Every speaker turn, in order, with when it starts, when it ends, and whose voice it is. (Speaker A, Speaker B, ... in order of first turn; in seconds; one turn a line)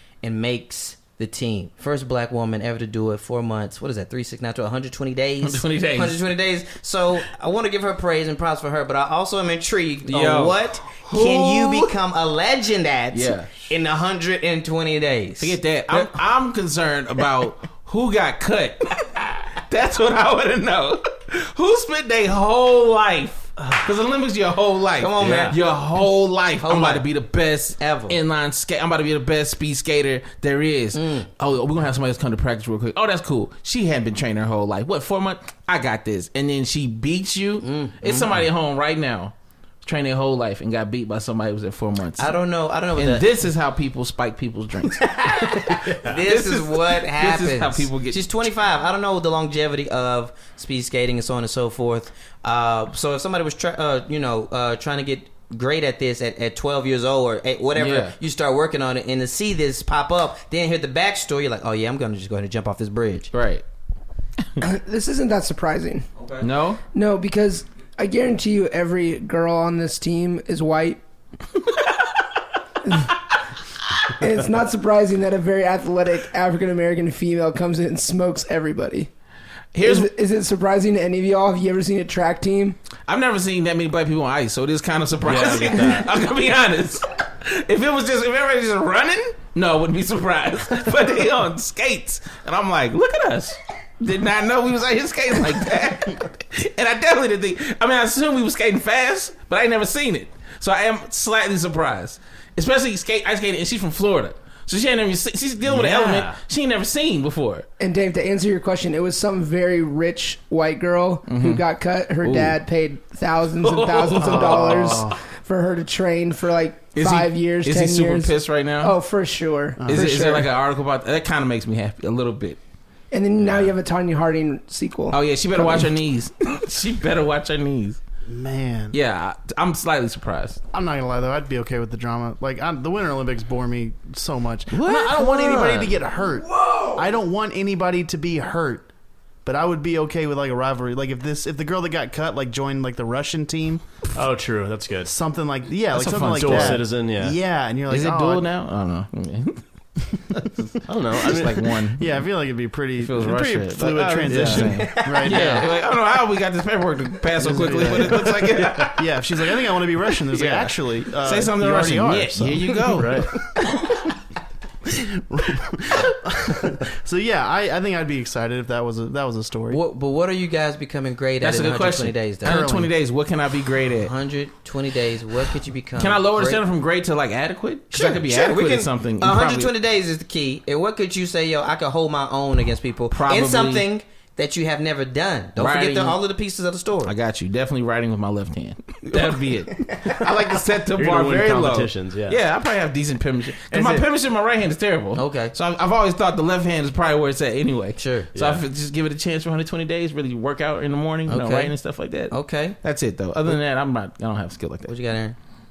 Speaker A: 0.2-16.1
Speaker B: 5.4-6.2
Speaker B: 10.1-11.9
Speaker B: 13.1-13.5
Speaker B: 15.4-42.3
Speaker A: 25.0-25.6
Speaker A: 26.6-27.1
Speaker A: 27.8-28.2
Speaker A: 30.9-31.3
Speaker A: 37.6-38.3
Speaker A: 42.2-43.3
Speaker B: 42.9-45.1
Speaker A: 45.0-63.3
Speaker C: 45.5-46.1
Speaker B: 46.2-48.2
Speaker B: 57.8-58.1
Speaker B: 63.3-63.6
Speaker D: 64.6-66.1
Speaker A: 66.2-66.4
Speaker B: 66.4-66.8
Speaker D: 66.9-71.0
Speaker D: 72.8-73.1
Speaker D: 74.2-79.1
Speaker B: 79.7-80.1
Speaker D: 79.8-82.8
Speaker B: 83.1-107.7
Speaker C: 85.2-86.1
Speaker C: 105.6-106.4
Speaker D: 107.8-120.5
Speaker B: 111.3-111.6
Speaker B: 112.2-112.6
Speaker B: 113.6-115.1
Speaker E: 114.2-115.2
Speaker B: 116.9-119.0
Speaker E: 119.8-120.2
Speaker B: 119.9-122.6
Speaker D: 123.1-125.9
Speaker B: 123.4-123.7
Speaker B: 125.1-128.0
Speaker E: 128.3-129.0
Speaker B: 128.9-130.6
Speaker E: 130.7-138.9
Speaker B: 134.7-136.0
Speaker E: 139.4-143.8
Speaker C: 144.1-145.1
Speaker E: 145.0-148.5
Speaker B: 145.9-146.8
Speaker C: 146.3-147.3
Speaker B: 147.9-149.6
Speaker B: 150.6-152.1
Speaker C: 150.8-151.7
Speaker E: 151.9-155.6
Speaker B: 153.0-159.0
Speaker C: 154.3-154.7
Speaker A: 154.8-155.7
Speaker E: 157.4-162.7
Speaker C: 157.9-158.9
Speaker B: 160.3-163.4
Speaker C: 162.9-163.4
Speaker E: 164.8-169.8
Speaker A: 169.7-172.6
Speaker B: 171.4-174.1
Speaker E: 172.4-172.9
Speaker A: 174.0-176.6
Speaker B: 176.0-179.7
Speaker A: 177.9-187.1
Speaker B: 183.1-183.8
Speaker B: 185.6-186.2
Speaker B: 187.0-204.9
Speaker C: 190.9-192.4
Speaker A: 193.7-194.0
Speaker A: 195.1-195.5
Speaker A: 198.0-198.3
Speaker C: 198.3-198.6
Speaker A: 201.3-201.8
Speaker A: 202.3-202.8
Speaker A: 204.9-205.3